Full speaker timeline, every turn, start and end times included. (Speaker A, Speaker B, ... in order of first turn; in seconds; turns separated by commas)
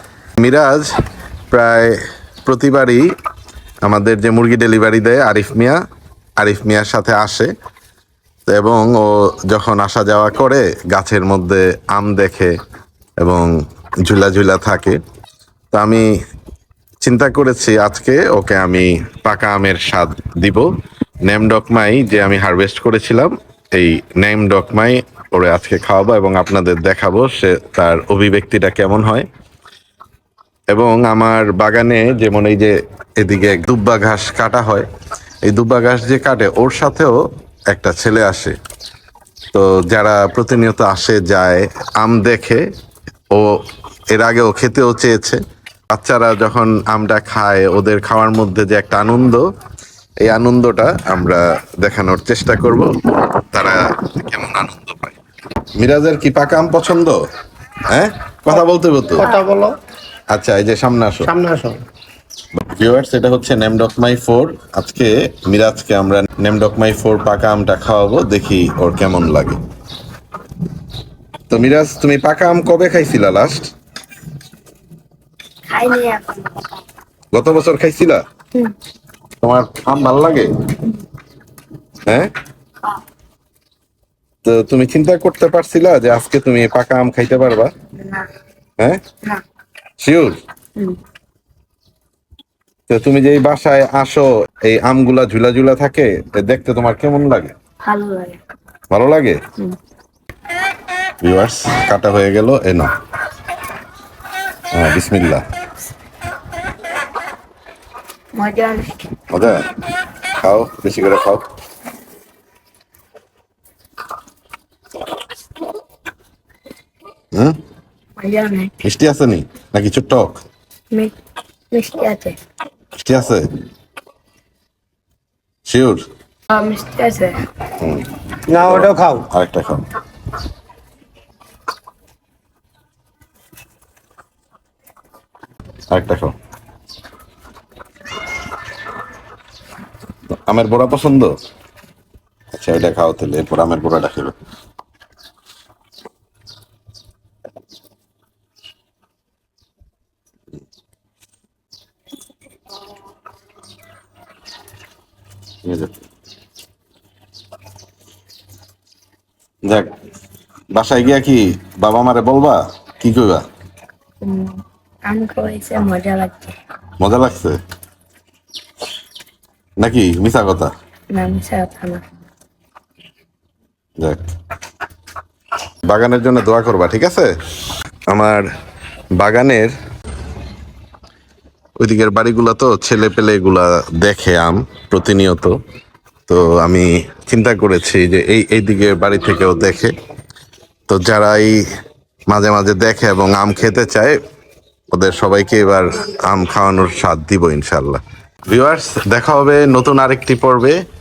Speaker A: 0.4-0.9, Speaker A: 1.5-3.1, Speaker A: 3.9-5.8, Speaker A: 6.4-7.5, Speaker A: 8.5-12.5, Speaker A: 13.2-13.5, Speaker A: 14.1-15.0, Speaker A: 15.7-16.1, Speaker A: 17.0-20.7, Speaker A: 21.3-29.3, Speaker A: 30.7-34.9, Speaker A: 35.5-38.6, Speaker A: 39.5-42.6, Speaker A: 43.3-49.5, Speaker A: 50.2-55.2, Speaker A: 55.8-57.2, Speaker A: 57.9-59.4, Speaker B: 59.2-59.8, Speaker A: 60.3-61.3, Speaker B: 61.3-61.8, Speaker A: 62.6-69.6, Speaker A: 71.5-73.7, Speaker C: 75.7-76.8, Speaker A: 77.3-78.2, Speaker A: 79.4-80.5, Speaker A: 82.1-82.3, Speaker A: 84.5-87.7, Speaker C: 88.0-88.3, Speaker A: 90.0-90.4, Speaker A: 92.9-97.5, Speaker C: 97.8-98.4, Speaker A: 98.9-99.4, Speaker A: 101.2-102.9, Speaker A: 104.7-105.4, Speaker C: 108.3-109.0, Speaker A: 109.3-109.7, Speaker A: 110.4-111.4, Speaker A: 117.3-117.6, Speaker C: 118.2-118.8, Speaker A: 118.8-120.4, Speaker C: 121.7-122.4, Speaker A: 123.0-123.5, Speaker A: 125.7-126.0, Speaker C: 126.5-127.4, Speaker A: 127.8-129.9, Speaker B: 128.5-129.3, Speaker A: 135.9-136.3, Speaker A: 140.5-141.4, Speaker A: 142.5-144.4, Speaker A: 155.7-156.0, Speaker A: 159.7-159.9, Speaker A: 160.7-163.5, Speaker C: 164.2-166.6, Speaker A: 167.0-167.6, Speaker A: 169.8-170.7, Speaker C: 171.1-172.0, Speaker A: 174.0-174.3, Speaker A: 175.9-177.3, Speaker A: 178.1-178.4, Speaker A: 179.2-179.7, Speaker A: 181.8-185.6, Speaker A: 186.3-189.9, Speaker A: 190.9-191.6, Speaker A: 192.3-194.2, Speaker A: 194.9-200.8